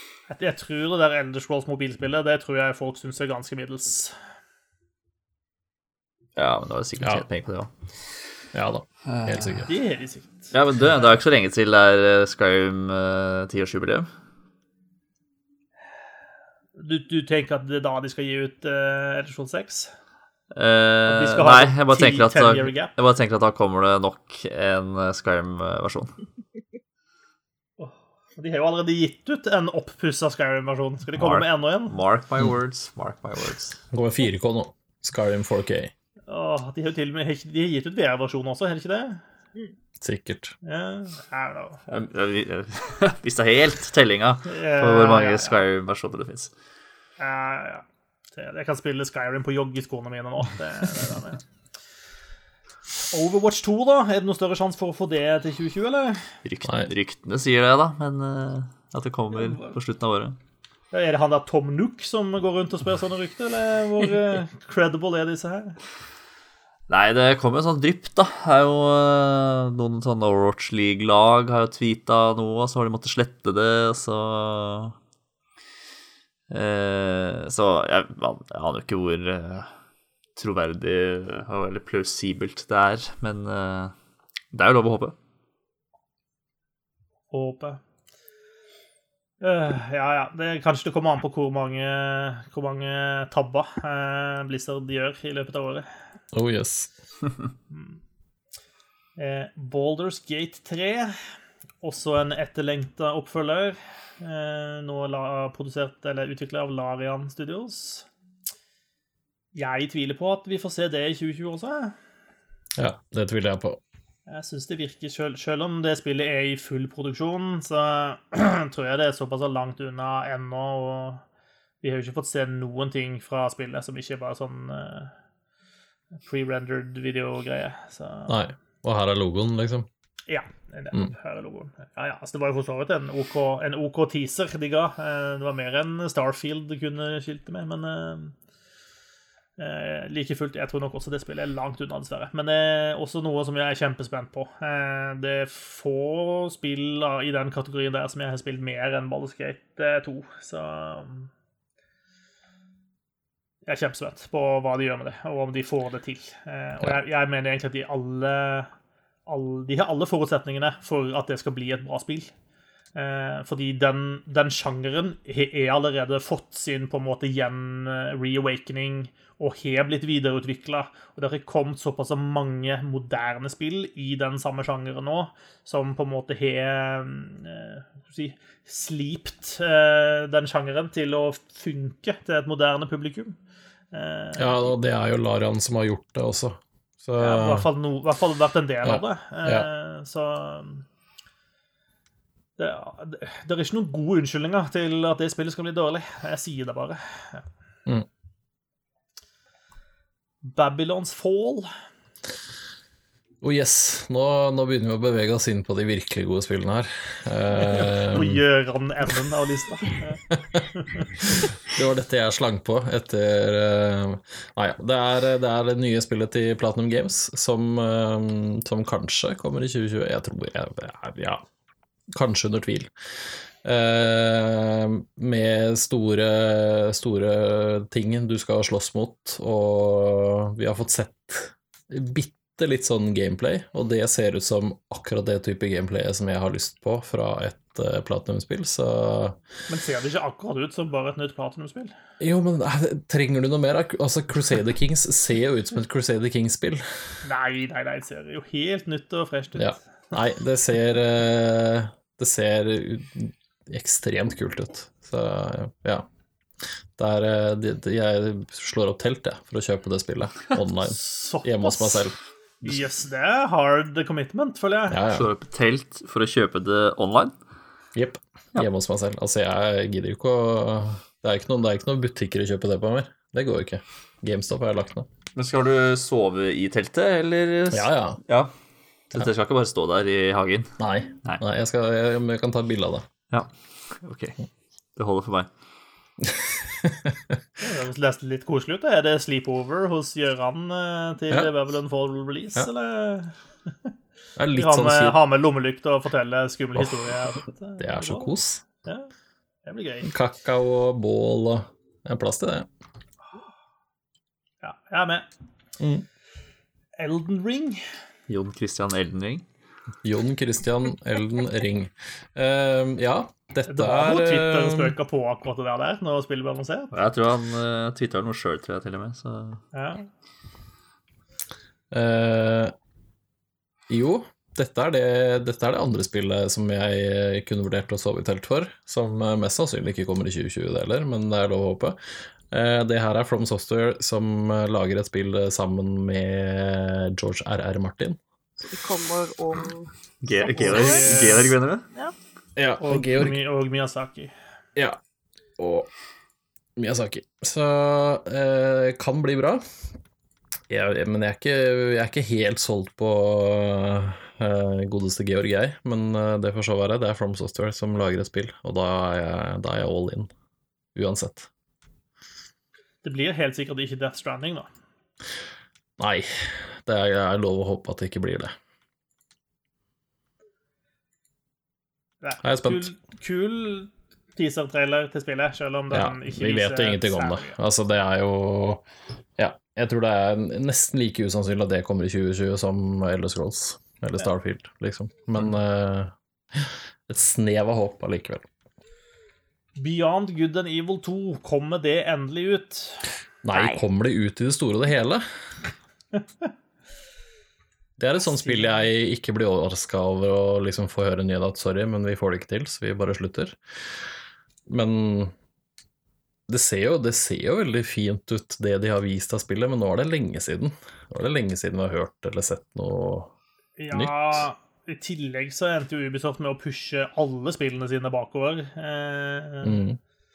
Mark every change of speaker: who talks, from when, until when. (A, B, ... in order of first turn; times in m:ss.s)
0:00.3-0:04.1 A
0:06.4-0:08.3 B
0:08.5-0:09.7 C
0:09.1-0:09.7 B
0:09.7-0:10.5 A
0:10.5-0:14.1 B
0:16.8-0:19.9 A
0:20.5-0:26.2 B
0:21.1-0:22.9 A
0:27.8-0:32.0 A
0:31.2-0:33.8 B
0:33.9-0:35.9 C
0:36.3-0:39.2 A
0:40.0-0:40.5 C
0:40.6-0:41.8 A
0:41.9-0:46.5 B
0:44.5-0:45.6 A
0:47.2-0:51.4 A
0:53.1-0:56.4 A
0:56.4-1:00.4 B
0:59.3-0:59.8 A
1:00.9-1:05.8 A
1:06.9-1:15.0 B
1:16.5-1:19.7 B
1:20.4-1:23.9 B
1:24.5-1:25.1 B
1:27.3-1:27.8 A
1:29.4-1:35.9 A
1:36.3-1:36.9 C
1:37.7-1:38.0 A
1:39.2-1:41.2 A
1:41.8-1:48.1 A
1:49.5-1:52.0 A
1:52.8-1:53.8 C
1:54.3-2:01.2 A
2:01.8-2:05.1 A
2:06.2-2:08.4 A
2:08.3-2:09.9 C
2:10.3-2:18.4 A
2:19.6-2:31.3 A
2:33.6-2:38.7 A
2:39.3-2:42.3 A
2:43.0-3:03.4 A
3:03.9-3:04.7 A
3:04.4-3:07.7 C
3:07.2-3:10.8 A
3:08.8-3:09.7 C
3:12.6-3:17.4 A
3:20.4-3:21.7 A
3:23.4-3:28.4 C
3:27.5-3:31.3 A
3:31.6-3:41.4 C
3:42.1-3:59.4 C
3:59.7-4:01.9 A
4:02.2-4:07.2 C
4:07.2-4:09.8 A
4:09.6-4:16.1 C
4:16.6-4:22.2 C
4:20.8-4:22.0 A
4:22.6-4:25.0 A
4:24.9-4:25.3 C
4:25.1-4:27.3 B
4:27.9-4:35.1 C
4:35.4-4:38.5 B
4:37.7-4:38.2 C
4:39.1-4:41.4 B
4:40.8-4:43.1 C
4:43.3-4:44.4 B
4:45.0-4:45.5 B
4:46.2-4:47.3 C
4:47.6-4:53.9 A
4:54.4-4:55.2 C
4:54.6-4:58.3 A
4:57.8-4:58.6 C
4:58.8-4:59.1 A
4:59.6-5:00.1 A
5:00.0-5:02.7 C
5:04.6-5:05.3 A
5:05.8-5:06.0 C
5:07.0-5:07.9 A
5:08.3-5:09.4 B
5:10.0-5:14.9 C
5:13.7-5:16.9 A
5:16.9-5:19.6 B
5:19.7-5:20.0 A
5:21.9-5:22.7 C
5:23.9-5:38.2 C
5:38.6-5:41.3 D
5:40.2-5:41.8 B
5:40.6-5:41.5 A
5:42.6-5:43.4 C
5:42.8-5:44.3 A
5:45.6-5:45.9 C
5:46.8-5:49.6 C
5:50.7-6:00.3 C
6:00.9-6:01.5 C
6:03.0-6:04.7 A
6:06.0-6:08.5 C
6:12.2-6:17.6 A
6:12.4-6:12.9 C
6:15.9-6:18.8 C
6:19.4-6:28.4 C
6:29.8-6:33.1 A
6:33.4-6:35.2 C
6:33.5-6:33.8 D
6:38.0-6:43.6 C
6:38.2-6:38.8 A
6:44.7-6:45.3 C
6:46.5-6:53.3 C
6:53.8-6:59.8 A
6:53.9-6:54.4 C
6:59.6-7:00.0 C